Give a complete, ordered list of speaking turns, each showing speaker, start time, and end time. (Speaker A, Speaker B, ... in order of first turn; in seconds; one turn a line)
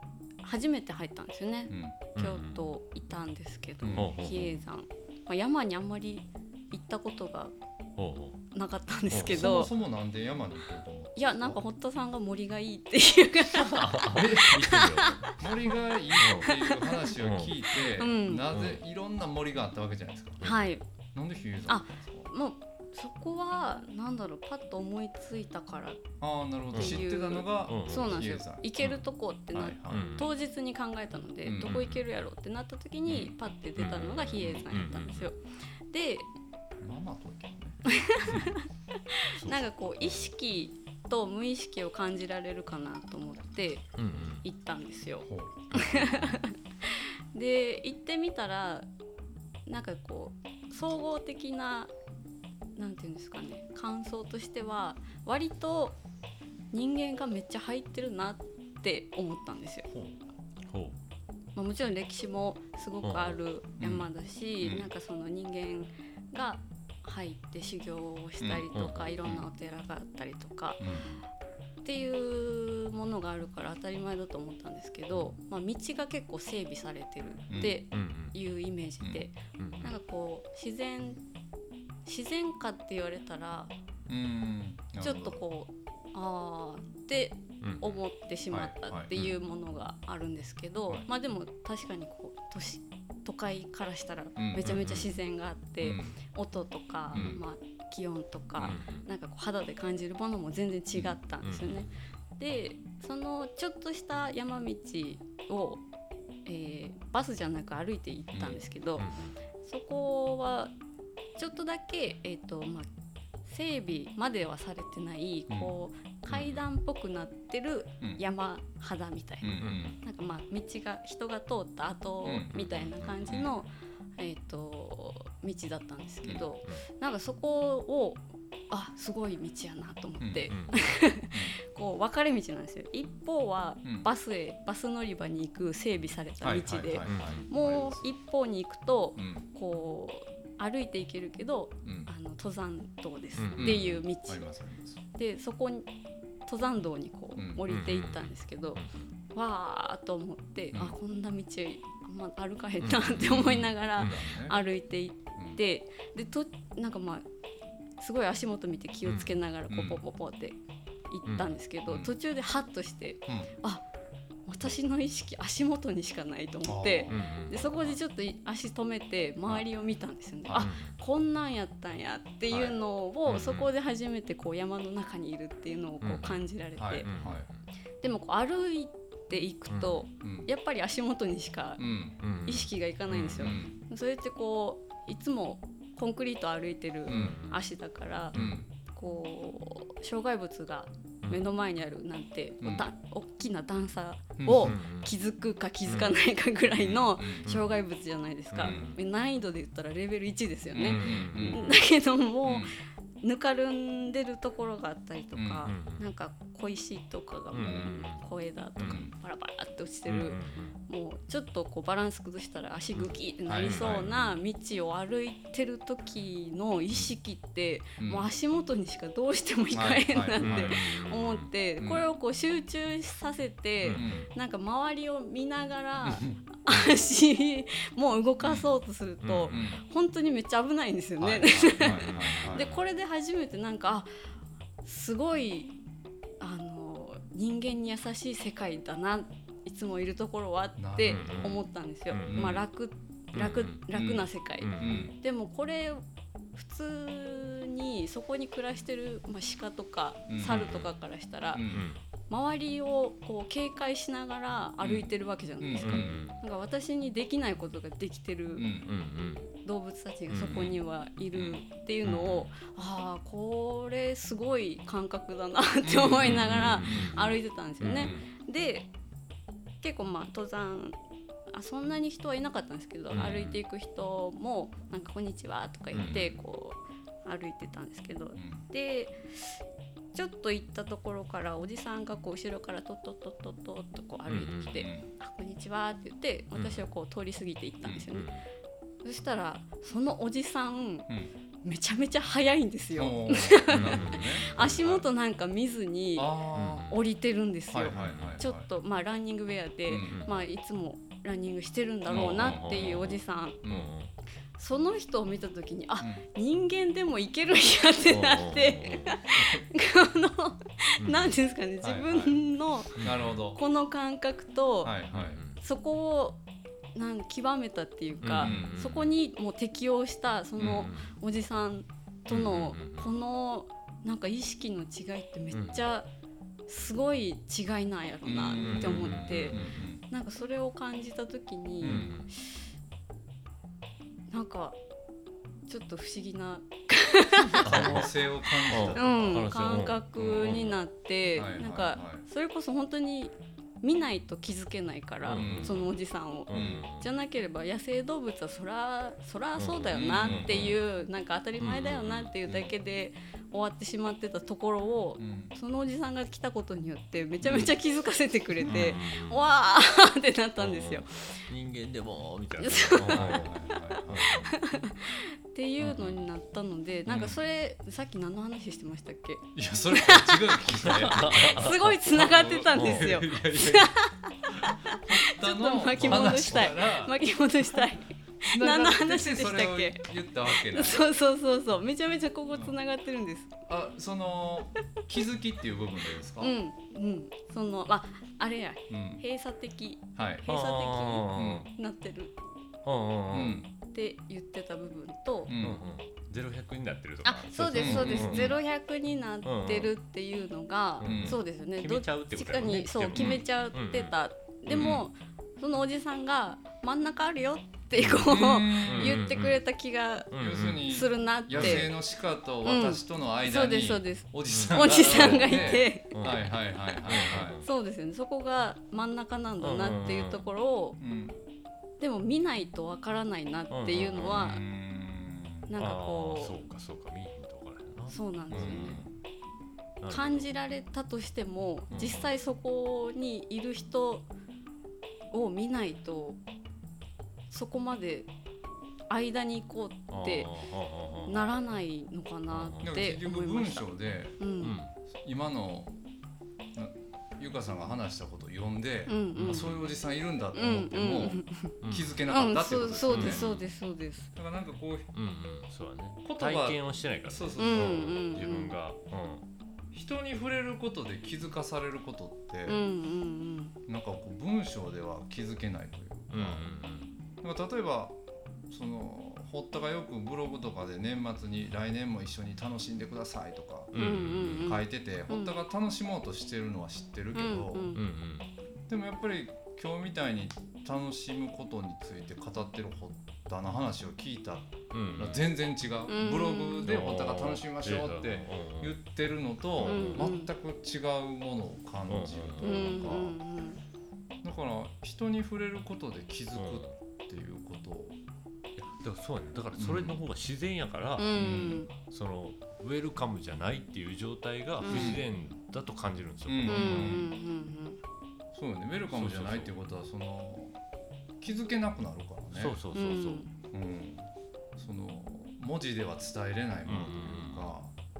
Speaker A: 0.4-7.5
Speaker B: 1.7-2.0
Speaker C: 2.1-2.7
Speaker B: 3.8-4.2
Speaker C: 3.9-4.6
Speaker C: 8.0-8.4
Speaker A: 8.5-9.7
Speaker C: 9.1-9.7
Speaker B: 9.1-11.6
Speaker A: 11.2-15.5
Speaker C: 13.5-15.3
Speaker B: 14.1-20.5
Speaker C: 16.2-16.6
Speaker A: 16.4-17.1
Speaker C: 17.1-17.6
Speaker A: 17.8-18.5
Speaker C: 18.5-18.8
Speaker C: 20.4-20.7
Speaker A: 20.4-20.8
Speaker B: 21.1-22.3
Speaker A: 21.7-26.2
Speaker B: 26.2-28.7
Speaker C: 26.7-28.3
Speaker A: 26.7-35.4
Speaker B: 29.5-30.2
Speaker C: 29.9-30.3
Speaker B: 31.4-31.9
Speaker C: 31.6-32.0
Speaker C: 33.1-35.3
Speaker B: 34.4-34.7
Speaker A: 35.9-36.3
Speaker B: 36.8-38.5
Speaker A: 37.9-43.9
Speaker C: 39.3-40.3
Speaker C: 44.0-44.4
Speaker A: 44.4-48.9
Speaker B: 45.2-46.2
Speaker C: 45.7-46.3
Speaker A: 49.7-51.9
Speaker A: 52.8-56.0
Speaker A: 56.7-59.9
Speaker B: 59.9-60.2
Speaker C: 60.7-61.0
Speaker A: 61.5-70.8
Speaker C: 63.0-63.4
Speaker B: 63.8-64.1
Speaker B: 64.6-64.9
Speaker B: 68.4-68.7
Speaker C: 68.7-69.4
Speaker B: 70.8-71.2
Speaker A: 71.8-81.2
Speaker B: 77.5-77.8
Speaker C: 77.9-78.3
Speaker B: 79.0-79.3
Speaker C: 79.6-80.0
Speaker A: 82.0-83.7
Speaker B: 84.1-85.4
Speaker A: 85.0-105.8
Speaker C: 87.6-88.0
Speaker B: 88.5-89.3
Speaker B: 94.4-94.8
Speaker C: 94.6-95.1
Speaker B: 95.8-96.2
Speaker B: 97.1-97.4
Speaker C: 98.6-99.1
Speaker C: 101.4-101.9
Speaker A: 106.5-109.1
Speaker B: 108.3-108.6
Speaker C: 109.0-109.4
Speaker A: 109.6-110.7
Speaker A: 111.4-112.9
Speaker A: 113.5-144.5
Speaker C: 116.3-116.7
Speaker B: 119.4-120.0
Speaker C: 119.6-120.0
Speaker B: 122.2-122.5
Speaker C: 122.5-123.5
Speaker B: 126.2-126.5
Speaker B: 130.2-130.5
Speaker C: 130.5-130.9
Speaker B: 131.3-131.6
Speaker B: 133.8-134.1
Speaker B: 136.4-138.1
Speaker C: 137.0-137.5
Speaker B: 139.2-139.5
Speaker B: 141.8-142.1
Speaker C: 143.4-144.1
Speaker B: 143.6-145.0
Speaker A: 145.2-145.9
Speaker A: 146.5-148.8
Speaker B: 147.4-147.7
Speaker C: 147.7-149.1
Speaker A: 149.3-157.2
Speaker B: 150.7-151.0
Speaker C: 152.8-154.2
Speaker B: 153.0-154.6
Speaker B: 155.4-155.6
Speaker A: 158.0-160.6
Speaker C: 159.1-159.4
Speaker B: 159.7-160.0
Speaker A: 161.1-163.8
Speaker C: 161.3-161.6
Speaker B: 161.9-162.2
Speaker B: 163.3-163.5
Speaker A: 164.5-177.1
Speaker B: 166.7-167.3
Speaker C: 167.1-168.0
Speaker B: 170.5-170.7
Speaker C: 170.6-171.0
Speaker B: 172.5-172.8
Speaker C: 173.3-173.7
Speaker C: 176.0-176.4
Speaker B: 176.8-177.5
Speaker C: 177.0-177.7
Speaker A: 178.0-234.1
Speaker C: 179.7-180.0
Speaker B: 180.2-180.5
Speaker B: 181.8-182.2
Speaker C: 182.2-183.6
Speaker B: 183.4-183.8
Speaker B: 187.1-187.4
Speaker C: 187.1-187.6
Speaker C: 188.3-188.6
Speaker B: 188.3-188.7
Speaker B: 194.4-194.8
Speaker C: 194.6-195.1
Speaker C: 195.9-196.1
Speaker B: 196.7-197.6
Speaker C: 197.4-197.8
Speaker C: 198.5-199.0
Speaker B: 198.6-198.9
Speaker B: 200.7-201.8
Speaker C: 200.8-201.8
Speaker B: 202.4-202.8
Speaker B: 205.3-205.7
Speaker C: 205.7-206.1
Speaker C: 207.5-208.2
Speaker C: 208.8-209.1
Speaker B: 208.8-209.1
Speaker C: 210.1-210.8
Speaker B: 213.0-214.1
Speaker C: 213.6-214.3
Speaker B: 218.0-218.3
Speaker B: 219.7-220.8
Speaker C: 220.4-221.5
Speaker B: 221.8-222.1
Speaker C: 223.8-224.3
Speaker B: 223.9-224.3
Speaker B: 226.0-226.4
Speaker C: 226.7-227.1
Speaker C: 229.2-229.7
Speaker B: 229.5-229.8
Speaker B: 231.2-232.7
Speaker C: 231.8-232.8
Speaker A: 234.8-235.7
Speaker A: 236.4-246.0
Speaker B: 240.8-241.6
Speaker C: 241.1-242.6
Speaker B: 242.2-242.7
Speaker C: 243.3-243.8
Speaker B: 243.9-245.2
Speaker C: 244.6-245.1
Speaker A: 246.6-251.7
Speaker B: 250.3-250.7
Speaker C: 250.4-250.9
Speaker B: 251.5-251.9
Speaker C: 251.7-252.0
Speaker A: 252.3-258.8
Speaker B: 254.8-255.1
Speaker B: 255.6-256.2
Speaker C: 255.8-256.4
Speaker B: 258.6-258.9
Speaker C: 258.8-259.5
Speaker A: 259.6-268.9
Speaker C: 260.3-260.7
Speaker B: 260.4-260.8
Speaker C: 261.3-262.5
Speaker B: 265.8-267.4
Speaker C: 266.2-268.3
Speaker B: 267.9-268.2
Speaker A: 269.8-271.0
Speaker A: 271.5-279.6
Speaker C: 273.1-273.6
Speaker C: 275.9-276.3
Speaker B: 276.0-276.3
Speaker B: 278.4-278.6
Speaker A: 280.1-288.3
Speaker C: 284.3-284.9
Speaker B: 284.8-285.1
Speaker C: 286.5-286.9
Speaker B: 287.8-288.1
Speaker C: 288.1-288.5
Speaker A: 289.0-291.1
Speaker A: 291.6-303.6
Speaker B: 292.9-295.1
Speaker C: 293.7-294.9
Speaker B: 296.2-297.0
Speaker C: 296.5-297.0
Speaker B: 297.7-298.7
Speaker C: 297.9-298.4
Speaker B: 299.9-300.3
Speaker C: 300.1-300.4
Speaker B: 302.1-303.0
Speaker C: 302.1-304.1
Speaker B: 303.6-303.9
Speaker A: 304.6-315.0
Speaker C: 308.1-309.2
Speaker B: 309.4-309.6
Speaker C: 311.0-311.4
Speaker B: 311.8-312.4
Speaker C: 313.0-313.4
Speaker B: 313.0-313.6
Speaker B: 314.8-315.4
Speaker C: 315.1-315.6
Speaker A: 315.6-316.4
Speaker A: 316.9-326.1
Speaker C: 318.2-319.2
Speaker B: 318.4-318.7
Speaker C: 320.6-321.1
Speaker C: 322.3-323.1
Speaker C: 325.5-325.9
Speaker A: 326.7-332.4
Speaker B: 328.2-330.0
Speaker C: 328.6-329.8
Speaker C: 331.8-332.3
Speaker B: 331.8-332.1
Speaker A: 334.3-334.8
Speaker A: 335.7-338.1
Speaker C: 337.5-338.1
Speaker B: 337.5-339.5
Speaker C: 338.7-340.8
Speaker A: 338.9-361.4
Speaker B: 340.2-340.6
Speaker B: 341.3-342.2
Speaker C: 345.2-345.9
Speaker B: 345.3-345.9
Speaker C: 346.5-347.1
Speaker B: 346.5-346.8
Speaker C: 349.6-350.8
Speaker B: 349.9-350.8
Speaker C: 351.6-352.4
Speaker B: 355.2-355.6
Speaker B: 357.4-357.8
Speaker B: 358.6-359.0
Speaker C: 358.6-359.5
Speaker C: 360.6-364.6
Speaker A: 362.6-363.4
Speaker B: 363.1-364.4
Speaker A: 364.4-380.1
Speaker C: 365.8-366.3
Speaker B: 367.1-367.4
Speaker B: 369.6-374.0
Speaker C: 370.8-372.0
Speaker C: 372.7-373.2
Speaker B: 374.5-377.2
Speaker B: 378.4-381.1
Speaker A: 380.6-383.5
Speaker B: 382.5-382.8
Speaker B: 383.7-386.6
Speaker A: 386.4-392.4
Speaker B: 388.9-389.2
Speaker B: 390.2-390.5
Speaker C: 390.5-391.7
Speaker B: 391.4-391.7
Speaker C: 392.9-393.6
Speaker B: 393.3-393.7
Speaker A: 393.9-395.5
Speaker B: 395.5-395.8
Speaker C: 395.6-398.6
Speaker A: 397.2-411.9
Speaker B: 397.8-398.6
Speaker C: 399.4-399.9
Speaker C: 401.0-404.2
Speaker B: 401.0-401.4
Speaker C: 404.7-405.0
Speaker B: 408.0-409.3
Speaker C: 408.0-409.6
Speaker C: 410.3-410.9
Speaker B: 410.3-417.6
Speaker C: 411.5-411.9
Speaker A: 412.6-416.1
Speaker C: 414.5-417.7
Speaker A: 417.6-421.0
Speaker C: 419.6-420.4
Speaker B: 421.0-421.4
Speaker A: 422.0-424.6
Speaker C: 423.7-424.6
Speaker B: 424.2-425.7
Speaker A: 425.7-426.6
Speaker C: 425.8-429.1
Speaker A: 428.1-429.0
Speaker B: 428.5-429.2
Speaker C: 430.0-430.5
Speaker A: 430.1-434.3
Speaker C: 431.9-432.3
Speaker A: 435.3-436.4
Speaker A: 437.5-438.3
Speaker A: 439.1-440.5
Speaker C: 440.1-441.5
Speaker A: 441.3-443.9
Speaker C: 442.5-442.9
Speaker B: 442.8-444.4
Speaker A: 444.4-444.8
Speaker C: 444.6-444.9
Speaker B: 445.1-445.9
Speaker B: 446.7-453.5
Speaker A: 449.1-449.8
Speaker C: 449.4-449.8
Speaker A: 450.5-451.8
Speaker C: 451.8-452.2
Speaker A: 452.3-454.3
Speaker C: 453.1-453.7
Speaker B: 454.4-455.1
Speaker C: 455.1-459.4
Speaker B: 456.2-458.2
Speaker A: 457.6-458.8
Speaker B: 459.9-462.8
Speaker A: 462.7-463.8
Speaker B: 463.9-466.7
Speaker C: 466.3-467.1
Speaker B: 467.4-478.0
Speaker C: 473.9-474.8
Speaker A: 473.9-475.6
Speaker A: 477.3-478.0
Speaker C: 477.9-478.5
Speaker B: 478.9-493.4
Speaker C: 484.9-485.4
Speaker A: 486.1-487.0
Speaker C: 486.9-489.0
Speaker C: 489.8-490.3
Speaker A: 489.8-490.5
Speaker C: 492.1-493.0
Speaker A: 492.6-493.8
Speaker B: 494.4-498.2
Speaker C: 496.6-497.0
Speaker C: 498.8-507.2
Speaker B: 499.8-500.2
Speaker A: 501.2-501.9
Speaker B: 501.4-501.9
Speaker A: 504.8-505.2
Speaker B: 504.9-505.2
Speaker B: 506.5-507.3
Speaker A: 506.7-508.0
Speaker B: 508.5-510.8
Speaker C: 509.1-509.8
Speaker B: 511.4-512.8
Speaker C: 512.5-513.5
Speaker A: 512.9-513.5
Speaker B: 513.7-517.9
Speaker C: 516.9-517.7